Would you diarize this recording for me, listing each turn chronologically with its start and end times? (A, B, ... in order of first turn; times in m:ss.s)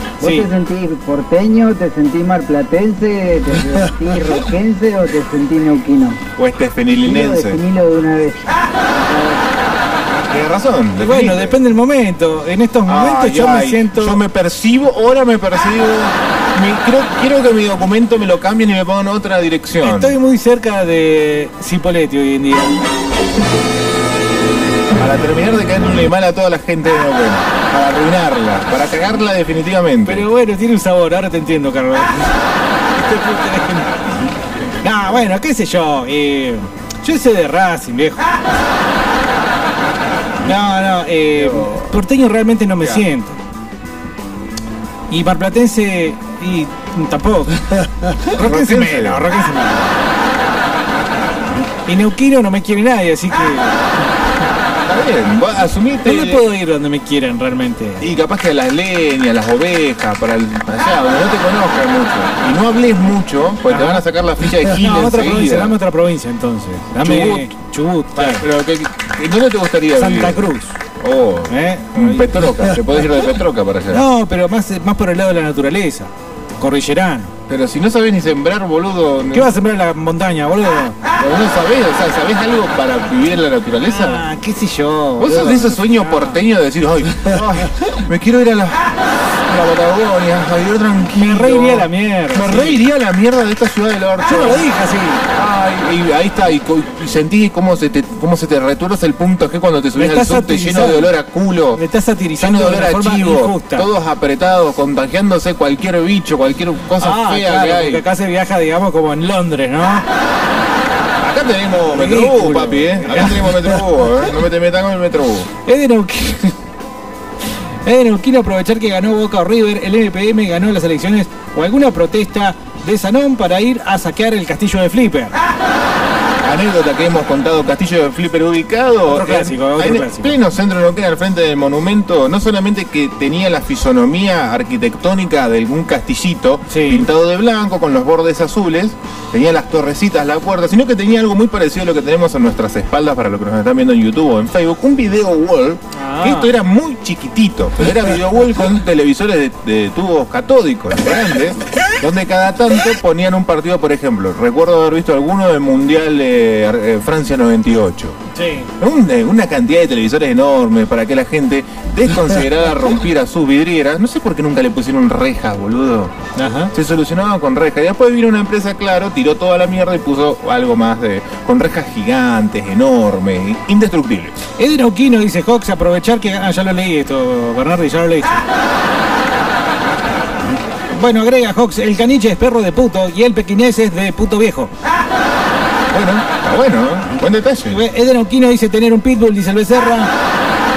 0:00.2-0:06.2 A
0:00.2-0:00.5 B
0:06.4-0:07.6 C
0:07.0-0:09.4 A
0:10.3-0:11.6 C
0:11.0-0:14.2 B
0:12.8-0:20.1 C
0:19.8-0:22.7 B
0:25.0-0:30.2 C
0:30.0-0:32.3 B
0:32.9-0:33.9 B
0:34.8-0:38.3 B
0:40.4-0:43.4 B
0:41.3-0:41.9 C
0:45.1-0:47.6 B
0:48.3-0:49.9 B
0:48.4-0:49.3 C
0:51.9-0:53.8 B
0:54.8-0:56.4 C
0:56.0-0:58.1 B
0:58.0-1:05.8 C
1:03.7-1:04.0 B
1:04.8-1:08.4 B
1:07.0-1:07.5 C
1:08.1-1:14.0 C
1:10.0-1:10.7 B
1:11.5-1:12.2 B
1:13.9-1:17.3 B
1:17.5-1:19.5 C
1:19.3-1:21.0 B
1:21.2-1:24.2 C
1:23.8-1:26.4 B
1:25.2-1:34.6 C
1:31.2-1:32.8 B
1:34.2-1:35.2 B
1:35.3-1:41.8 C
1:40.0-1:41.1 B
1:41.7-1:43.9 B
1:42.4-1:48.0 C
1:47.0-1:50.0 B
1:51.2-1:55.5 C
1:51.9-1:53.4 B
1:55.6-1:56.5 B
1:57.8-2:05.3 B
2:06.4-2:38.2 C
2:09.1-2:10.3 B
2:16.7-2:17.1 B
2:25.9-2:26.5 B
2:38.3-2:38.7 B
2:38.8-2:46.1 C
2:46.4-2:46.7 B
2:46.7-2:54.4 C
2:54.6-2:58.4 B
3:00.9-3:04.7 B
3:05.9-3:07.8 C
3:07.7-3:10.1 B